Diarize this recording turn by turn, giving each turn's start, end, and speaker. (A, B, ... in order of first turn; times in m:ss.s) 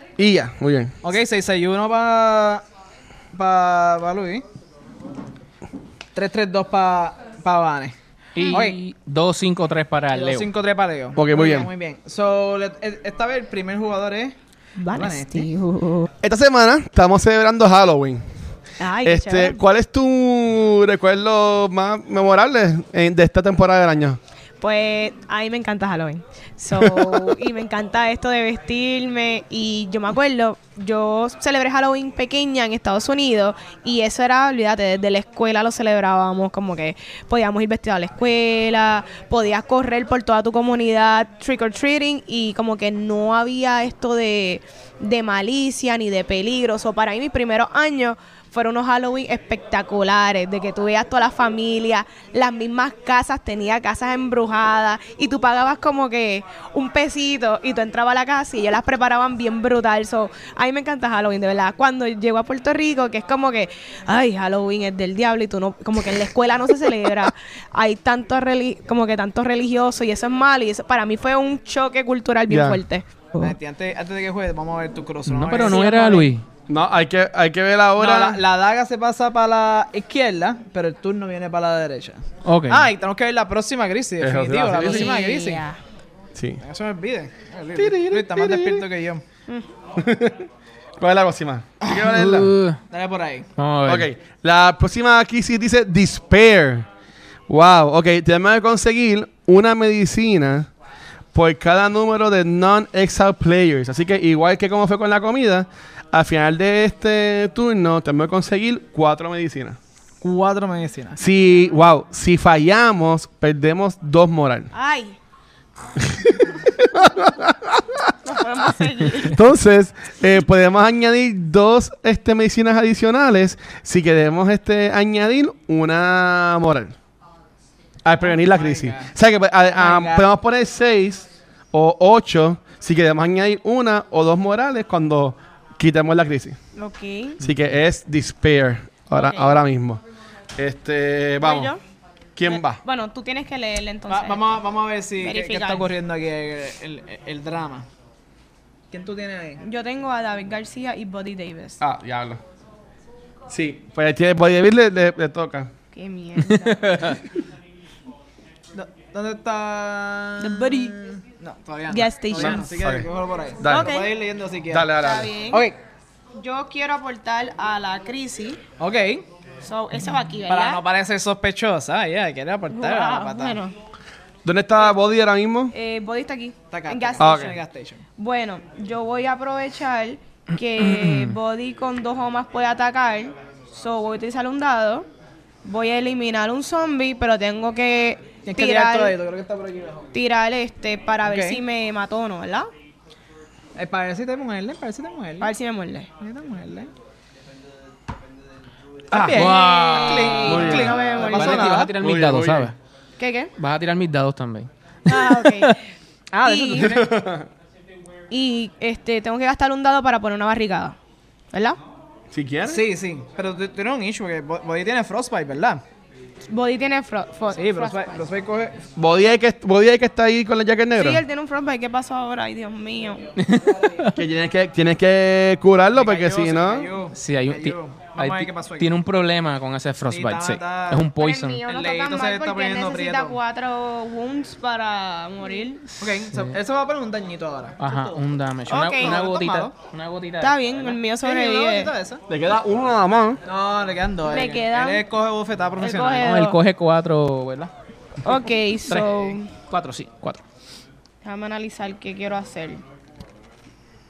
0:00.2-0:00.9 A
0:01.0-0:02.6 B
0:03.3-0:04.4 B
0:06.1-0:07.9 B
0:08.3-0:10.5 C
0:08.5-0:08.8 B
0:10.1-0:14.3 B
0:11.2-0:11.7 A
0:14.8-0:16.1 D
0:14.9-0:15.5 B
0:16.2-0:18.2 A
0:18.8-0:19.6 D
0:19.0-0:24.2 A
0:24.6-1:13.3 D
0:26.7-0:27.4 A
1:12.5-1:12.8 A
1:13.4-1:16.0 B
1:15.2-1:16.4 C
1:15.6-1:16.3 D
1:16.7-1:18.4 A
1:18.0-1:25.6 B
1:22.4-1:22.9 C
1:24.2-1:25.1 A
1:24.8-1:25.8 D
1:26.3-1:26.6 A
1:26.6-1:29.2 B
1:27.7-1:28.8 A
1:30.0-1:30.5 A
1:31.0-1:32.5 A
1:32.0-1:32.8 C
1:32.9-1:33.5 B
1:33.6-1:34.1 C
1:33.8-1:36.9 A
1:37.5-1:40.7 A
1:41.3-1:49.8 A
1:50.2-1:51.2 B
1:51.2-1:54.7 A
1:54.7-1:55.2 D
1:56.0-1:58.1 A
1:58.2-1:59.4 D
1:59.2-2:06.9 A
2:08.0-2:16.6 A
2:08.2-2:09.1 B
2:09.7-2:10.2 B
2:16.7-2:17.4 D
2:17.4-2:20.0 A
2:19.1-2:19.6 D
2:20.6-2:21.7 A
2:21.4-2:21.8 D
2:22.4-2:22.8 A
2:22.4-2:24.6 D
2:24.1-2:27.9 B
2:25.2-2:25.8 D
2:28.9-2:29.6 B
2:29.6-2:31.8 D
2:31.8-2:32.4 A
2:33.5-2:35.7 A
2:35.9-2:37.2 D
2:36.4-2:37.2 C
2:38.7-2:44.9 B
2:40.4-2:41.0 D
2:41.9-2:42.6 D
2:42.3-2:43.1 A
2:43.6-2:43.9 A
2:43.6-2:44.1 D
2:44.7-2:45.3 A
2:44.9-2:45.6 D
2:45.5-2:45.8 B
2:46.4-2:48.6 D
2:48.8-2:49.2 B
2:49.6-2:50.8 D
2:50.4-2:53.6 B
2:52.7-2:53.8 D
2:54.4-2:55.7 A
2:55.7-2:57.6 D
2:56.7-2:58.0 B
2:57.2-2:57.6 A
2:58.2-3:05.1 D
3:00.8-3:01.4 C
3:05.6-3:09.1 D
3:08.4-3:10.1 B
3:10.1-3:12.7 D
3:11.2-3:11.6 B
3:13.8-3:15.5 B
3:15.4-3:16.1 D
3:16.2-3:16.9 B
3:19.1-3:19.6 A
3:19.1-3:21.9 B
3:19.3-3:20.5 C
3:19.3-3:21.8 D
3:20.4-3:21.1 A
3:21.3-3:22.7 C
3:21.9-3:22.7 A
3:23.2-3:23.5 D
3:23.6-3:25.8 C
3:25.0-3:25.8 D
3:26.3-3:27.1 B
3:26.4-3:27.1 D
3:26.7-3:27.5 A
3:28.3-3:31.0 D
3:31.5-3:31.8 D
3:32.3-3:32.8 A
3:32.6-3:35.8 B
3:36.5-3:38.2 D
3:37.5-3:38.8 B
3:39.0-3:41.2 A
3:40.9-3:43.3 D
3:43.4-3:44.2 C
3:44.1-3:46.9 A
3:45.9-3:49.0 B
3:47.1-3:51.6 C
3:50.1-3:51.1 B
3:51.2-3:55.8 D
3:51.6-3:53.4 B
3:56.0-3:58.2 B
3:56.0-3:56.5 C
3:57.8-4:00.9 C
3:58.7-3:59.2 D
3:58.9-3:59.7 B
4:00.4-4:01.9 D
4:01.2-4:02.2 B
4:02.3-4:03.4 A
4:03.4-4:06.3 B
4:04.2-4:05.0 D
4:05.8-4:06.6 D
4:06.2-4:07.7 C
4:08.2-4:09.5 D
4:08.9-4:10.4 C
4:11.2-4:12.8 D